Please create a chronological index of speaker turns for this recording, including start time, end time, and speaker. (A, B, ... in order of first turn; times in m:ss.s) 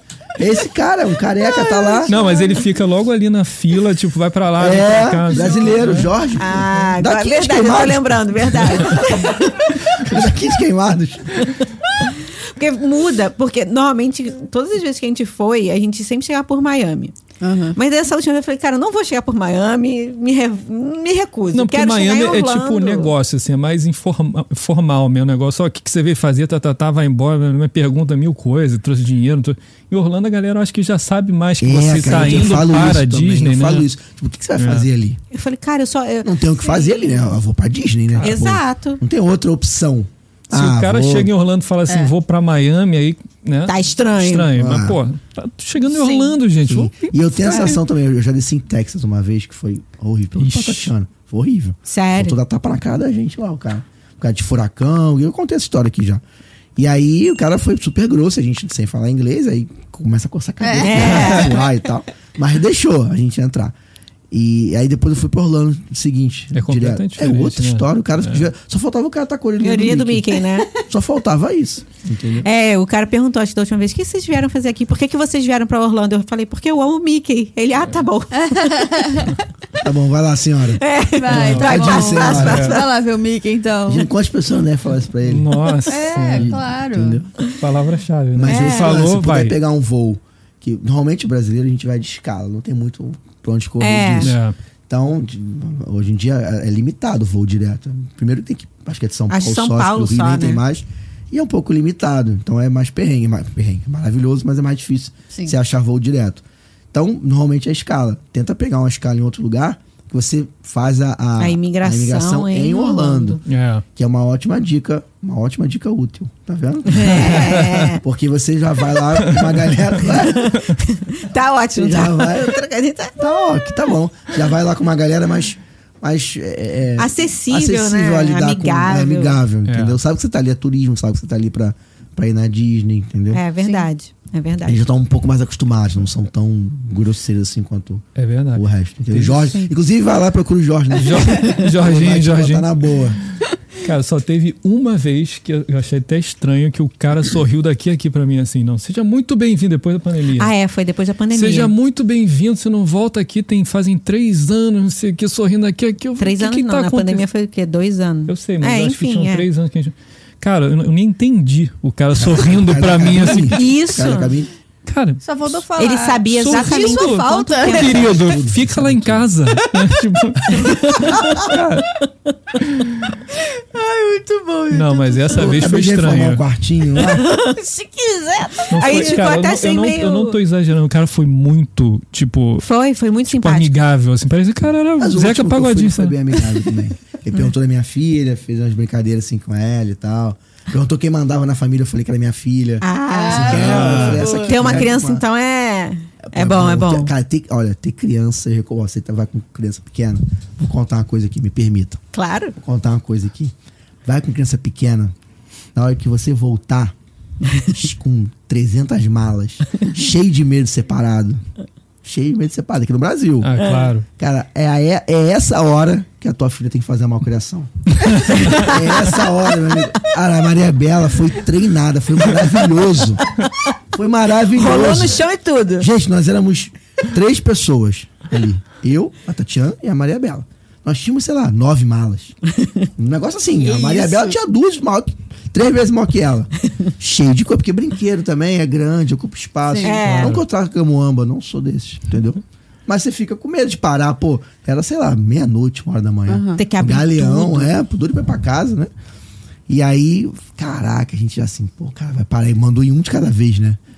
0:00.4-0:02.2 A
0:01.9-0:02.3 B
0:02.0-0:06.1 C
0:04.6-0:11.4 A
0:06.4-0:10.0 B
0:11.4-0:17.1 B
0:17.4-0:17.8 D
0:17.7-0:23.1 B
0:21.5-0:33.9 C
0:31.6-0:35.2 A
0:34.6-0:34.9 C
0:35.3-0:37.2 B
0:36.2-0:41.3 A
0:38.1-0:38.4 C
0:38.2-0:39.0 B
0:40.5-0:47.7 C
0:43.7-0:44.5 B
0:44.5-0:45.0 A
0:45.9-0:46.4 B
0:46.7-0:56.2 A
0:50.4-0:50.9 C
0:51.9-0:52.4 B
0:56.8-1:03.7 A
1:00.6-1:01.1 D
1:00.8-1:01.7 B
1:01.1-1:01.5 C
1:04.3-1:12.5 A
1:06.5-1:08.5 C
1:09.6-1:10.7 B
1:12.4-1:19.3 B
1:18.3-1:19.4 D
1:19.8-1:22.8 A
1:20.8-1:22.8 B
1:21.1-1:24.1 D
1:21.3-1:22.8 C
1:23.9-1:25.6 A
1:25.2-1:26.5 C
1:25.9-1:27.2 D
1:26.3-1:27.2 A
1:27.5-1:29.6 C
1:28.3-1:34.3 A
1:28.4-1:29.0 B
1:33.8-1:34.3 B
1:34.2-1:34.5 C
1:34.9-1:53.4 A
1:39.3-1:40.6 B
1:51.4-1:53.4 B
1:53.4-1:53.8 C
1:54.0-2:00.6 A
1:56.9-1:58.0 B
1:57.0-1:57.9 C
1:59.2-1:59.9 C
2:00.2-2:03.2 B
2:01.7-2:02.6 A
2:03.2-2:13.4 A
2:07.0-2:09.4 B
2:09.6-2:10.0 C
2:13.3-2:14.8 B
2:13.6-2:13.9 D
2:14.6-2:23.2 A
2:18.2-2:19.6 C
2:21.0-2:22.7 C
2:23.7-2:30.5 C
2:30.4-2:31.7 B
2:31.3-2:37.2 C
2:36.2-2:39.4 B
2:38.3-2:43.6 C
2:42.2-2:44.5 A
2:43.5-2:44.3 B
2:44.8-2:45.2 C
2:45.2-2:48.1 D
2:45.8-2:48.2 B
2:46.3-2:51.9 C
2:48.0-2:49.3 A
2:50.6-2:51.4 B
2:51.0-2:51.5 D
2:52.6-2:52.9 C
2:53.3-2:55.7 D
2:54.7-2:56.4 C
2:55.3-2:57.3 A
2:57.0-2:57.5 B
2:57.4-2:59.2 D
2:58.7-3:02.7 C
2:58.8-3:00.4 B
3:02.6-3:03.7 B
3:03.2-3:06.2 C
3:05.0-3:15.2 A
3:12.8-3:17.1 B
3:13.1-3:14.8 D
3:13.5-3:14.2 C
3:16.2-3:22.0 A
3:22.1-3:22.6 B
3:22.6-3:23.5 A
3:24.0-3:25.1 A
3:25.7-3:26.9 A
3:27.6-3:31.4 A
3:32.0-3:33.6 A
3:33.4-3:34.0 C
3:33.6-3:33.9 B
3:34.2-3:43.2 A
3:38.0-3:38.5 C
3:38.3-3:39.0 B
3:43.9-3:45.2 A
3:44.5-3:45.9 B
3:45.8-3:52.3 A
3:53.0-4:08.9 A
3:53.6-3:54.3 D
3:59.6-4:00.0 D
3:59.8-4:00.4 B
4:00.0-4:00.4 C
4:06.3-4:06.6 D
4:06.6-4:07.7 B
4:09.7-4:13.8 A